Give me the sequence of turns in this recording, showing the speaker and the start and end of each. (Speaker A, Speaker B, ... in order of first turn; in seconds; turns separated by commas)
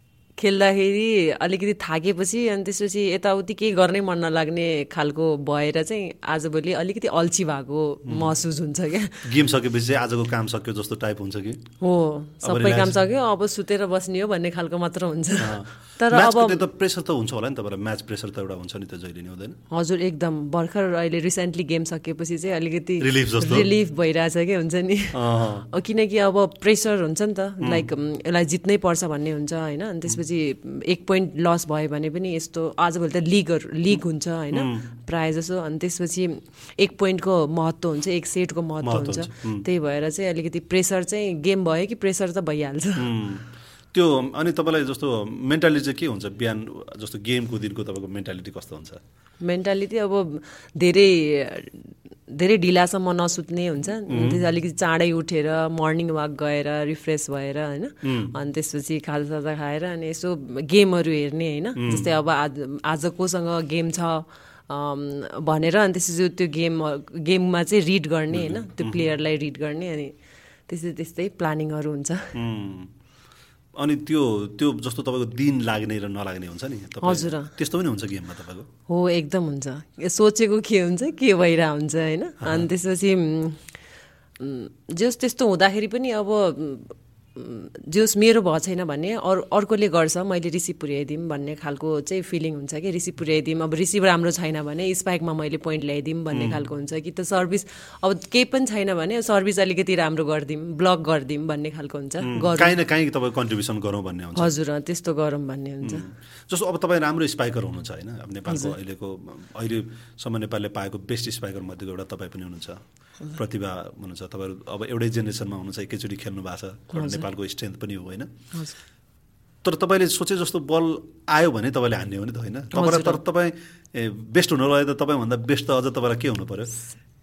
Speaker A: 0.4-9.3, Speaker B: 8.1-8.3, Speaker B: 9.2-11.6, Speaker A: 11.8-16.6, Speaker B: 12.4-13.0, Speaker B: 15.4-19.6, Speaker A: 19.7-43.1, Speaker B: 23.0-23.7, Speaker B: 25.1-25.7, Speaker B: 27.6-27.9, Speaker B: 34.5-34.9, Speaker B: 38.8-39.7, Speaker B: 43.0-49.0, Speaker A: 49.4-70.1, Speaker B: 54.1-54.4, Speaker B: 58.0-58.3, Speaker B: 61.8-62.1, Speaker B: 68.3-69.1, Speaker A: 70.7-72.3, Speaker B: 72.3-72.9, Speaker B: 73.8-78.7, Speaker A: 77.0-77.5, Speaker A: 78.9-83.6, Speaker B: 82.4-82.7, Speaker A: 84.4-102.8, Speaker B: 96.3-96.6, Speaker B: 102.2-104.5, Speaker A: 104.4-106.1, Speaker B: 105.8-112.8, Speaker A: 108.5-108.8, Speaker B: 113.4-118.3, Speaker A: 116.9-117.3, Speaker B: 119.6-126.8, Speaker A: 122.7-123.2